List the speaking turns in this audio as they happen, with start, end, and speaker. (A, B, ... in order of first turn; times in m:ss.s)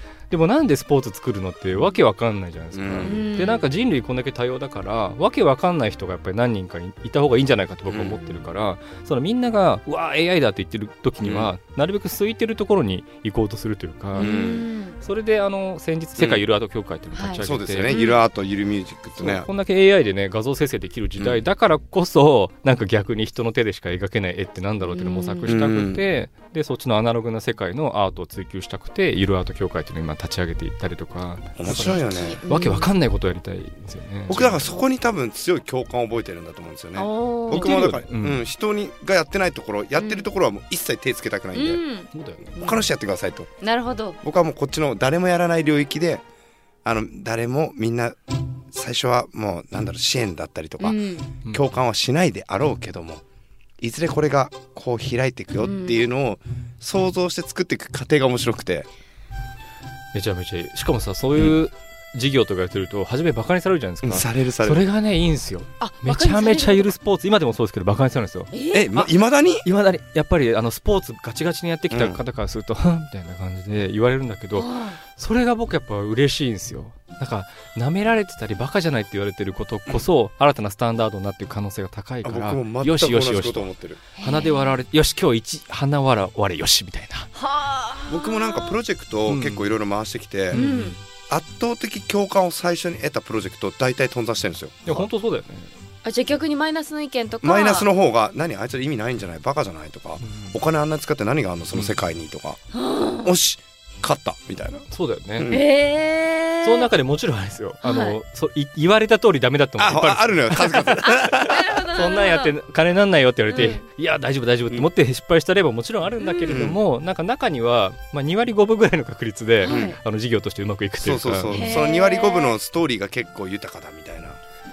0:00.3-0:14.3 A
0:02.7-0:03.2 B
0:03.0-0:03.7 C
0:07.9-0:08.2 B
0:11.2-0:11.5 B
0:14.2-0:15.0 C
0:14.2-0:14.6 B
0:15.0-0:17.9 A
0:16.2-0:16.4 B
0:17.2-0:18.2 C
0:17.4-0:19.5 B
0:19.2-0:34.7 A
0:24.9-0:25.5 C
0:25.5-0:26.0 B
0:31.6-0:32.4 B
0:31.7-0:32.9 C
0:34.3-0:41.8 B
0:37.0-0:37.8 C
0:37.5-0:38.4 A
0:40.0-0:40.2 C
0:41.5-0:42.9 C
0:42.1-0:42.5 A
0:42.6-0:43.5 B
0:43.6-0:44.2 C
0:44.2-0:46.2 B
0:46.8-0:48.2 B
0:48.7-0:51.0 B
0:50.8-0:51.3 C
0:51.5-0:53.2 B
0:53.8-0:58.9 B
0:55.6-0:56.0 C
1:00.1-1:09.1 A
1:04.0-1:04.8 B
1:05.8-1:06.9 C
1:08.5-1:09.0 C
1:08.7-1:09.6 B
1:09.6-1:27.3 A
1:11.9-1:12.2 B
1:14.5-1:15.0 C
1:22.2-1:24.0 B
1:24.2-1:24.8 C
1:27.4-1:28.8 C
1:28.1-1:30.6 B
1:29.3-1:29.7 A
1:30.5-1:31.0 A
1:30.5-1:30.9 C
1:31.3-1:35.1 B
1:34.9-1:35.7 A
1:36.0-1:37.9 C
1:37.4-1:42.6 B
1:40.2-1:40.6 A
1:42.7-1:43.3 C
1:43.2-1:44.8 B
1:44.9-1:45.5 A
1:45.4-1:45.6 B
1:45.5-1:46.9 C
1:46.6-1:51.1 A
1:47.8-1:48.2 C
1:49.8-1:51.7 B
1:51.0-1:52.5 C
1:51.9-2:01.8 A
1:53.5-1:53.8 C
1:56.2-1:56.6 C
1:56.5-1:56.8 B
1:59.6-2:00.0 C
1:59.7-2:00.0 B
2:01.0-2:04.4 B
2:01.5-2:02.6 C